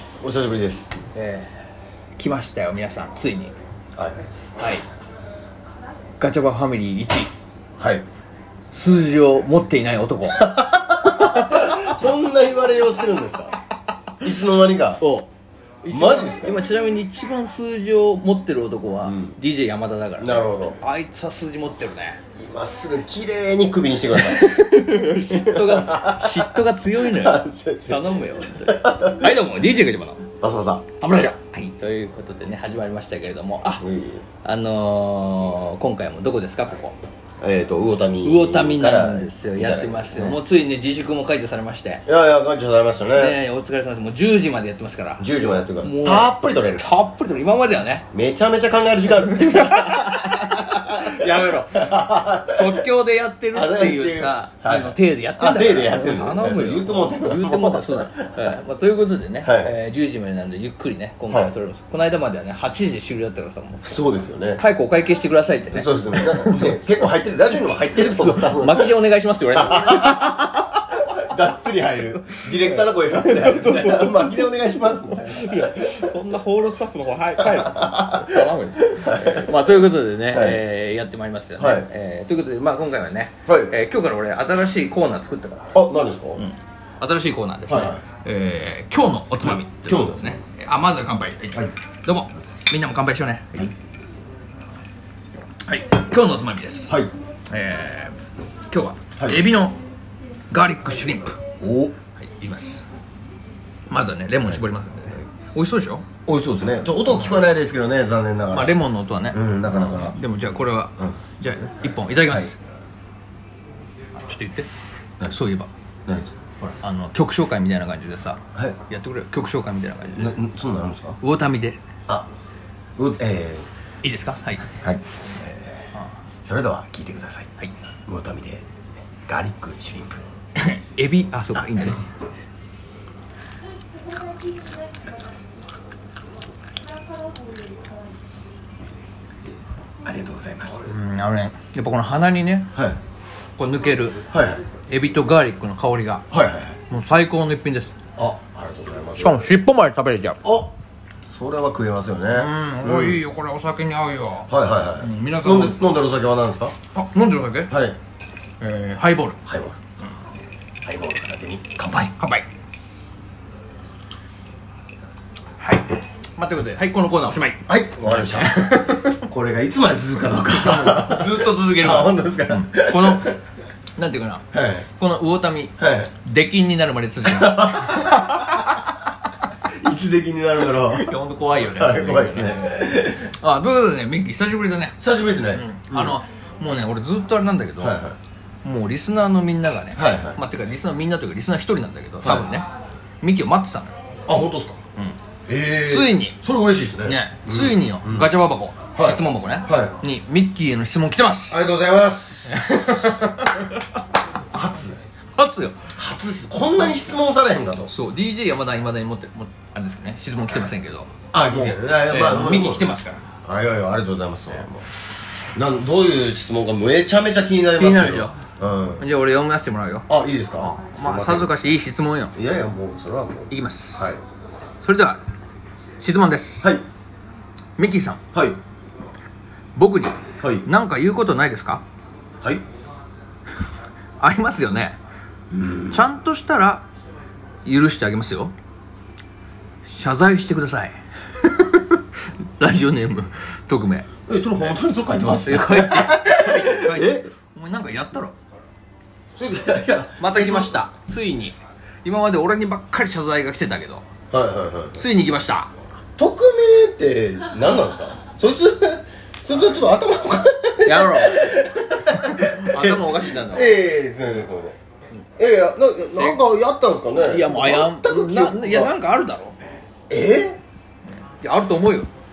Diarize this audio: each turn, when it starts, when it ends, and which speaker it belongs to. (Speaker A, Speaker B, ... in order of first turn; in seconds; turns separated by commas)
Speaker A: 0.2-0.9, Speaker B: 1.1-1.6, Speaker B: 2.2-3.5, Speaker B: 4.6-4.8, Speaker B: 6.2-7.3, Speaker A: 7.8-8.1, Speaker B: 8.7-10.5, Speaker A: 10.4-13.6, Speaker B: 11.2-11.8, Speaker A: 14.2-15.0, Speaker B: 15.0-15.3, Speaker B: 15.8-22.2, Speaker A: 15.9-16.6, Speaker A: 19.0-19.4, Speaker A: 20.2-20.8, Speaker A: 22.4-24.5, Speaker B: 24.2-30.2, Speaker A: 25.1-29.4, Speaker A: 30.4-30.9, Speaker B: 31.0-33.9, Speaker A: 33.8-34.2, Speaker B: 34.4-37.0, Speaker A: 37.4-40.4, Speaker B: 38.2-42.0, Speaker A: 42.1-43.4, Speaker B: 43.1-48.1, Speaker A: 45.2-46.9, Speaker A: 48.1-52.9, Speaker B: 49.4-51.9, Speaker B: 52.5-63.9, Speaker A: 53.5-58.5, Speaker A: 59.4-59.8, Speaker A: 63.9-64.6, Speaker B: 64.6-66.8, Speaker A: 65.7-69.0, Speaker B: 68.0-70.7, Speaker A: 69.5-76.2, Speaker B: 72.6-85.7, Speaker A: 77.4-79.5, Speaker A: 80.3-80.6, Speaker A: 81.6-81.9, Speaker A: 83.5-83.7, Speaker A: 85.7-86.4, Speaker B: 86.4-93.7, Speaker A: 87.7-88.0, Speaker A: 89.9-90.4, Speaker B: 95.7-97.0, Speaker B: 97.5-98.2, Speaker B: 98.7-99.8, Speaker B: 100.5-101.4, Speaker A: 101.6-102.0, Speaker B: 102.2-102.8, Speaker B: 103.9-106.1, Speaker A: 106.3-108.8, Speaker B: 107.1-107.4, Speaker B: 108.5-112.6, Speaker A: 109.3-110.2, Speaker A: 112.3-112.5, Speaker B: 114.2-114.7, Speaker B: 115.2-115.7, Speaker A: 116.1-116.7, Speaker B: 116.8-120.4, Speaker A: 120.2-121.2, Speaker B: 121.2-121.8, Speaker A: 123.0-123.7, Speaker B: 124.0-124.6, Speaker A: 124.8-125.7, Speaker A: 126.4-127.5, Speaker A: 128.1-128.6, Speaker A: 129.3-130.2, Speaker B: 130.6-132.0, Speaker A: 140.0-140.8, Speaker B: 140.8-142.7, Speaker B: 143.6-144.2, Speaker A: 144.3-144.6, Speaker B: 144.9-146.2, Speaker A: 146.3-146.8, Speaker B: 146.9-147.9, Speaker A: 148.2-149.5, Speaker B: 149.2-150.4, Speaker A: 150.4-150.7, Speaker A: 151.3-153.2, Speaker B: 152.3-155.8, Speaker A: 154.5-156.8, Speaker B: 156.9-157.7, Speaker A: 157.7-158.0, Speaker B: 158.6-159.4, Speaker A: 159.5-159.8, Speaker A: 160.8-162.0, Speaker B: 161.8-162.5, Speaker B: 165.6-169.2, Speaker A: 167.7-168.7, Speaker A: 169.3-173.4, Speaker B: 170.6-173.3, Speaker B: 174.0-178.6, Speaker A: 174.5-174.9, Speaker A: 175.8-176.1, Speaker A: 177.2-178.4, Speaker A: 179.8-183.3, Speaker B: 180.8-185.0, Speaker A: 185.0-186.2, Speaker B: 185.5-188.0, Speaker A: 187.8-188.2, Speaker B: 188.6-192.7, Speaker A: 190.0-190.4, Speaker A: 192.2-192.5, Speaker B: 193.2-193.9, Speaker A: 194.3-194.8, Speaker A: 195.5-198.3, Speaker B: 195.9-196.4, Speaker B: 197.0-201.6, Speaker A: 199.0-199.9, Speaker A: 201.5-203.4, Speaker B: 202.4-203.7, Speaker A: 204.5-205.0, Speaker B: 205.4-205.9, Speaker A: 205.9-207.9, Speaker B: 207.9-213.2, Speaker A: 211.3-214.8, Speaker A: 215.6-219.0, Speaker B: 217.8-218.4, Speaker B: 219.0-220.1, Speaker A: 220.1-221.5, Speaker B: 220.6-222.3, Speaker A: 222.4-224.2, Speaker B: 223.5-224.2, Speaker B: 224.8-225.2, Speaker B: 226.0-226.7, Speaker B: 227.8-228.2, Speaker A: 228.3-228.6, Speaker B: 229.8-231.8, Speaker A: 230.4-230.7, Speaker B: 234.2-235.0, Speaker A: 235.5-236.0, Speaker B: 235.9-236.8, Speaker B: 237.7-238.5, Speaker B: 239.9-242.0, Speaker B: 242.6-244.1, Speaker A: 244.3-247.3, Speaker B: 245.4-248.3, Speaker A: 249.4-250.8, Speaker B: 250.2-254.1, Speaker A: 254.3-255.0, Speaker B: 254.9-255.7, Speaker A: 256.2-264.8, Speaker B: 260.8-263.8, Speaker A: 265.4-268.9, Speaker B: 267.2-269.6, Speaker A: 270.1-270.6, Speaker B: 271.4-272.1